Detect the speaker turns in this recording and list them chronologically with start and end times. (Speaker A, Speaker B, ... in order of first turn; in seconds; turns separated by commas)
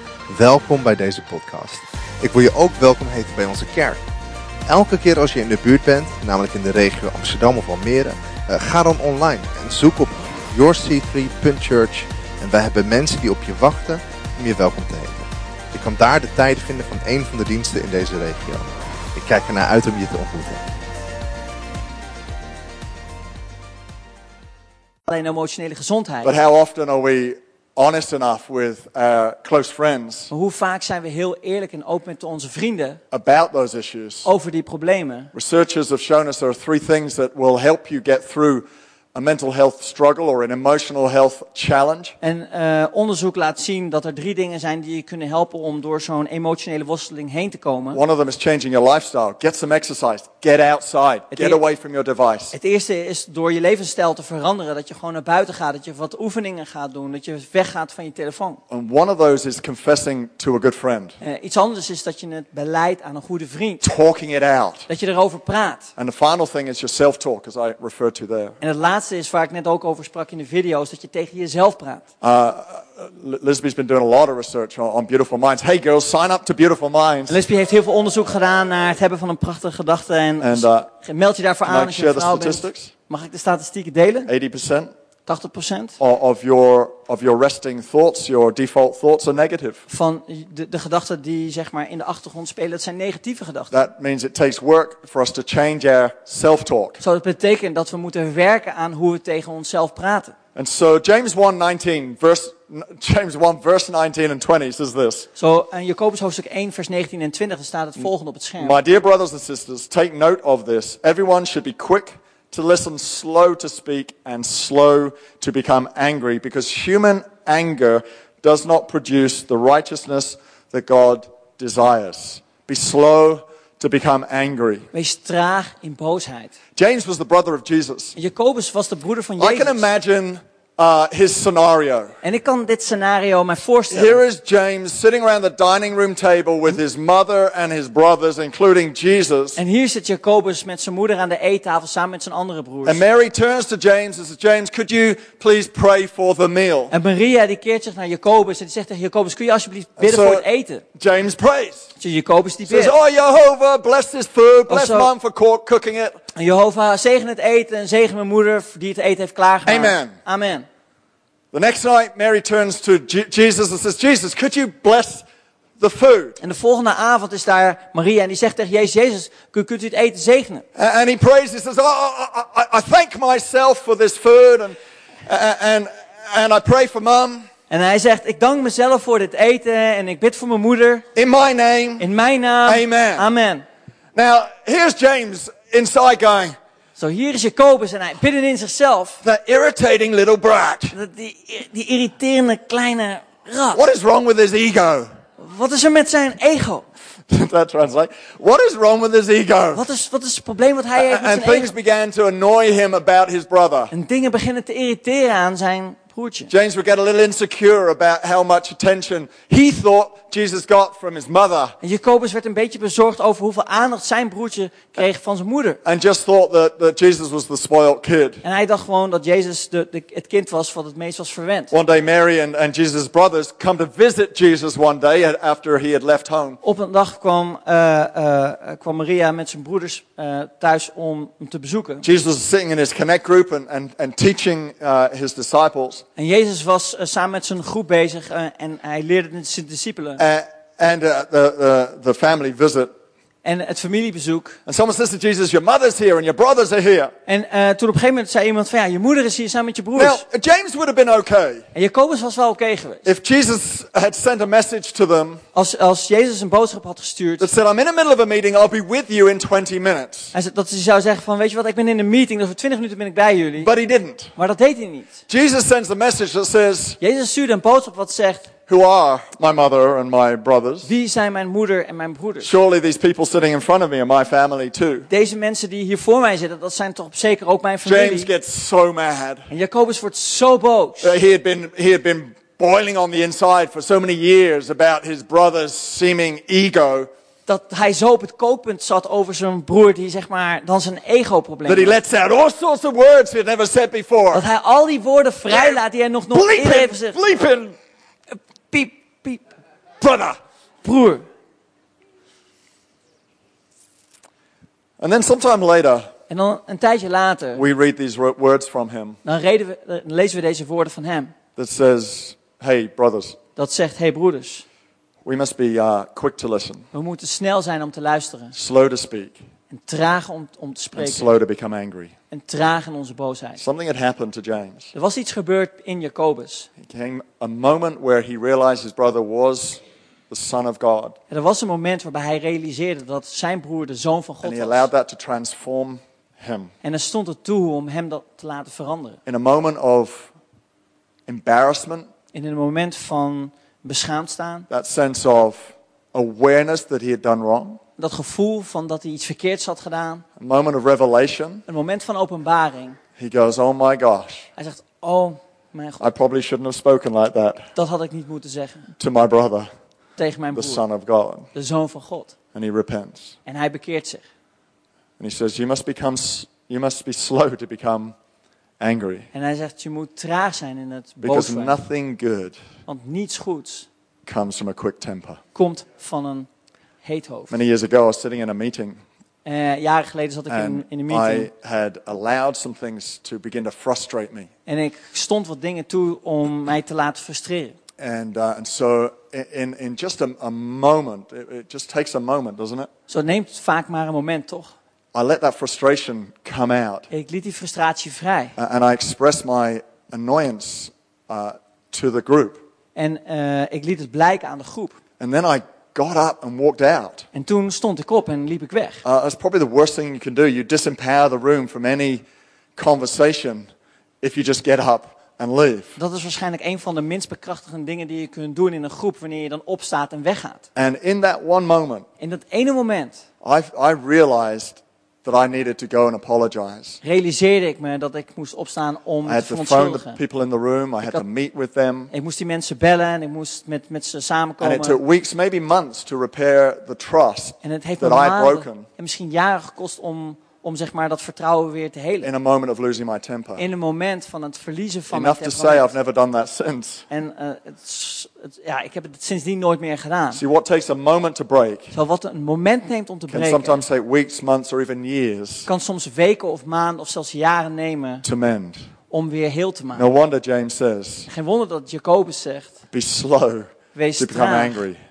Speaker A: 0.3-4.0, Speaker A: 4.7-20.6, Speaker B: 25.1-26.3, Speaker C: 26.2-30.3, Speaker B: 30.3-33.0, Speaker C: 33.1-34.3, Speaker B: 34.2-35.3, Speaker C: 35.3-42.1, Speaker B: 42.2-48.0, Speaker C: 47.9-52.5, Speaker B: 51.3-51.6, Speaker B: 52.5-58.6, Speaker C: 58.7-61.2, Speaker B: 61.2-63.8, Speaker C: 63.8-64.9, Speaker B: 64.9-65.9, Speaker C: 66.0-68.6, Speaker B: 68.6-72.0, Speaker C: 72.2-77.4, Speaker B: 77.3-84.3, Speaker C: 80.4-80.9, Speaker C: 81.6-82.9, Speaker C: 84.2-84.9, Speaker B: 85.3-86.0, Speaker C: 86.0-89.8, Speaker B: 89.9-93.7, Speaker C: 93.7-97.0, Speaker B: 97.0-100.3, Speaker C: 100.5-105.3, Speaker B: 105.4-108.8, Speaker C: 108.6-124.9, Speaker B: 124.9-126.5, Speaker C: 126.8-128.1, Speaker B: 128.1-129.8, Speaker C: 129.4-132.2, Speaker B: 132.2-134.2, Speaker C: 133.9-139.6, Speaker B: 139.6-143.0, Speaker C: 142.8-146.9, Speaker B: 146.9-150.8, Speaker C: 150.0-151.9, Speaker B: 152.0-152.9, Speaker C: 152.7-156.2, Speaker B: 154.7-155.1, Speaker B: 156.3-160.7, Speaker C: 159.7-160.1, Speaker C: 161.5-165.2, Speaker C: 165.8-166.4, Speaker B: 166.4-170.6, Speaker C: 170.7-177.5, Speaker B: 177.7-181.0, Speaker C: 181.1-182.1, Speaker B: 182.0-183.6, Speaker C: 182.6-183.3, Speaker C: 184.1-186.6, Speaker B: 187.0-189.2, Speaker C: 189.2-190.9, Speaker B: 190.9-193.8, Speaker C: 193.7-195.1, Speaker B: 195.4-196.9, Speaker C: 197.3-199.8, Speaker B: 199.7-201.7, Speaker C: 200.9-203.9, Speaker B: 203.9-206.5, Speaker C: 206.5-211.8, Speaker B: 211.8-215.8, Speaker C: 215.8-218.4, Speaker B: 218.4-221.7, Speaker C: 221.7-226.6, Speaker B: 226.6-232.0, Speaker C: 232.0-236.0, Speaker B: 236.2-240.2, Speaker C: 240.2-242.9, Speaker B: 243.4-244.6, Speaker C: 244.7-247.1, Speaker B: 247.3-250.2, Speaker C: 249.9-251.7, Speaker B: 251.7-253.0, Speaker C: 253.0-255.4, Speaker B: 255.5-257.5, Speaker C: 257.4-260.3, Speaker B: 260.3-263.7, Speaker C: 263.6-264.3, Speaker B: 264.4-265.1, Speaker C: 265.3-267.0, Speaker B: 267.0-268.5, Speaker C: 268.7-270.9, Speaker B: 270.8-272.5, Speaker C: 272.4-275.1, Speaker B: 275.1-278.3, Speaker C: 277.8-279.5, Speaker B: 279.5-281.1, Speaker C: 281.0-287.1, Speaker B: 287.5-292.0, Speaker C: 291.6-294.4, Speaker B: 294.3-297.2, Speaker C: 295.5-295.8, Speaker C: 296.3-297.8, Speaker B: 298.3-299.4, Speaker C: 300.0-300.4, Speaker B: 300.8-301.2, Speaker C: 305.0-306.1, Speaker B: 306.3-307.6, Speaker C: 307.5-309.2, Speaker B: 309.2-311.3, Speaker C: 311.6-313.4, Speaker B: 313.6-314.6, Speaker C: 315.2-316.9, Speaker B: 316.9-318.5, Speaker C: 318.5-319.4, Speaker B: 319.7-321.4, Speaker C: 320.9-322.1, Speaker B: 322.3-323.6, Speaker C: 323.6-324.9, Speaker B: 324.9-326.7, Speaker C: 326.8-331.1, Speaker B: 331.3-334.9, Speaker C: 334.4-336.7, Speaker B: 336.8-339.2, Speaker C: 339.3-340.3, Speaker C: 341.3-342.1, Speaker B: 342.3-344.7, Speaker C: 344.7-347.8, Speaker B: 348.0-350.2, Speaker C: 350.4-351.6, Speaker B: 351.6-353.0, Speaker C: 353.2-354.5, Speaker B: 354.6-356.0, Speaker C: 356.0-357.7, Speaker B: 357.7-358.9, Speaker C: 359.0-359.7, Speaker B: 360.2-360.8, Speaker C: 360.5-361.5, Speaker B: 361.5-362.3, Speaker C: 362.5-363.4, Speaker B: 363.5-364.2, Speaker C: 365.2-368.1, Speaker C: 368.8-369.3, Speaker B: 369.3-371.8, Speaker C: 371.2-372.6, Speaker B: 372.9-373.9, Speaker C: 374.2-375.4, Speaker B: 375.5-376.5, Speaker B: 377.0-377.6, Speaker C: 377.5-379.0, Speaker B: 379.4-381.5, Speaker C: 380.5-384.5, Speaker B: 384.7-387.8, Speaker C: 388.0-392.9, Speaker B: 393.1-394.7, Speaker C: 395.1-397.1, Speaker B: 397.1-398.5, Speaker C: 398.6-402.6, Speaker B: 402.9-405.0, Speaker C: 405.2-407.3, Speaker B: 407.3-409.0, Speaker C: 409.0-412.2, Speaker C: 412.8-413.7, Speaker C: 414.2-416.0, Speaker B: 416.0-420.6, Speaker C: 420.8-422.1, Speaker B: 422.2-423.2, Speaker C: 423.4-427.0, Speaker B: 427.0-430.2, Speaker C: 429.2-432.1, Speaker B: 432.1-435.0, Speaker C: 434.6-438.9, Speaker B: 437.6-442.3, Speaker C: 442.2-443.6, Speaker B: 443.6-445.9, Speaker C: 445.1-447.0, Speaker B: 447.1-450.4, Speaker C: 450.3-451.9, Speaker B: 451.9-453.8, Speaker C: 453.3-455.7, Speaker B: 455.6-458.2, Speaker C: 458.2-458.8, Speaker B: 459.1-460.1, Speaker C: 459.9-461.3, Speaker B: 461.3-462.7, Speaker C: 462.9-465.0, Speaker B: 463.9-464.8